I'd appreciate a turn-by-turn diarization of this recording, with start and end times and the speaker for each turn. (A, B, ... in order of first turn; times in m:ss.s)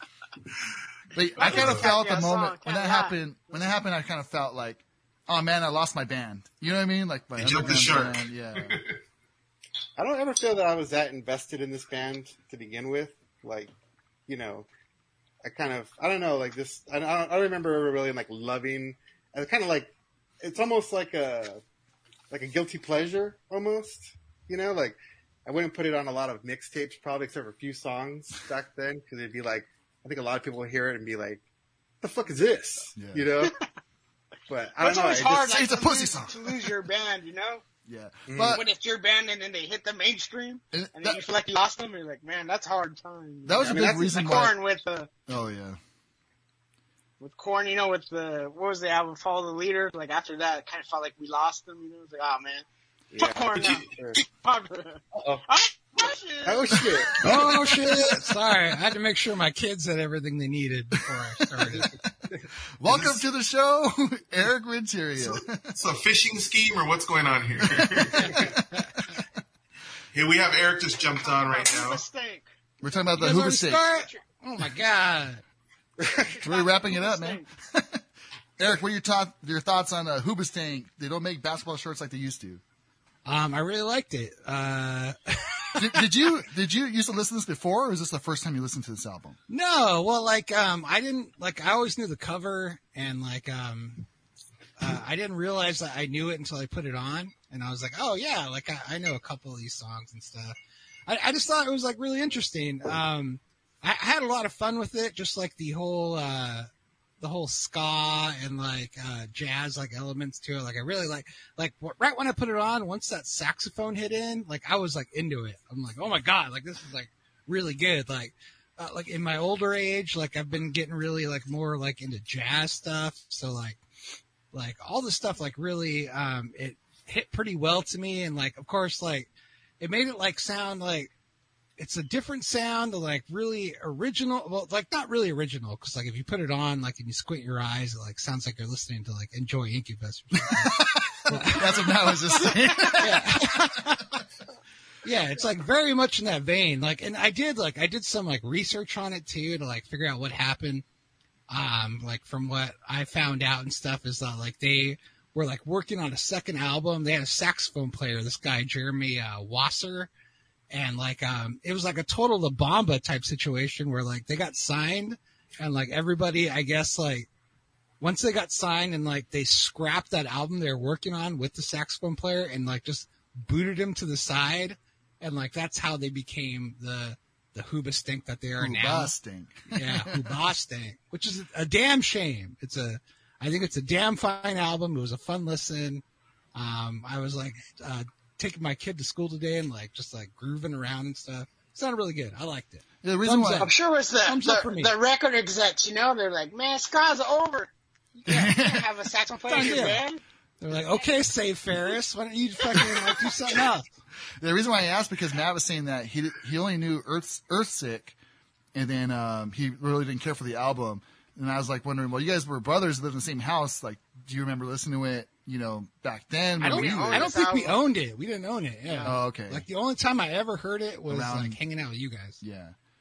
0:01.1-0:08.8 A
0:01.4-0:03.7 B
0:01.4-0:01.9 C
0:07.4-0:09.0 C
0:10.0-0:13.7 D
0:14.3-0:14.7 D
0:15.4-0:21.6 D
0:22.3-0:31.4 D
0:32.0-0:33.5 D
0:33.0-0:33.3 A
0:34.5-0:35.4 D
0:34.8-0:37.6 B
0:35.3-0:36.5 A
0:37.9-0:38.6 A
0:38.3-0:38.6 D
0:38.5-0:45.1 B
0:40.7-0:41.2 A
0:43.4-0:44.6 A
0:43.6-0:44.5 D
0:45.3-0:45.8 A
0:47.2-0:52.6 B
0:53.1-0:54.2 D
0:53.2-0:57.1 B
0:53.6-0:53.9 C
0:55.2-0:55.4 D
0:56.4-0:57.2 D
0:57.2-1:01.9 E
0:57.2-0:58.2 A
1:01.7-1:02.1 A
1:02.8-1:05.7 A
1:02.8-1:03.2 C
1:05.2-1:08.6 C
1:07.7-1:09.2 A
1:10.1-1:12.0 C
1:11.2-1:12.5 B
1:12.8-1:13.8 A
1:13.2-1:15.4 E
1:13.8-1:14.2 B
1:16.0-1:16.3 D
1:16.1-1:17.5 B
1:16.4-1:18.0 A
1:18.6-1:22.6 A
1:23.3-1:26.1 E
1:25.8-1:29.4 A
1:29.5-1:34.1 E
1:34.8-1:40.6 E
1:41.1-1:46.7 E
1:47.2-2:03.8 E
2:04.5-2:11.1 E
2:11.8-2:22.4 E
2:20.5-2:24.2 A
2:23.0-2:24.0 E
2:25.0-2:30.8 E
2:31.5-2:40.1 E
2:40.7-2:47.3 E
2:48.0-2:59.1 E
2:58.6-3:00.5 A
2:59.7-3:06.0 E
3:06.6-3:14.9 E
3:13.0-3:13.7 A
3:13.6-3:20.2 B
3:18.3-3:18.9 A
3:19.5-3:20.1 E
3:20.6-3:23.9 E
3:20.7-3:21.0 B
3:24.4-3:28.2 A
3:28.7-3:37.4 A
3:36.6-3:37.8 B
3:36.6-3:42.4 E
3:38.9-3:39.2 B
3:39.0-3:39.7 A
3:41.1-3:41.6 A
3:42.4-3:42.8 A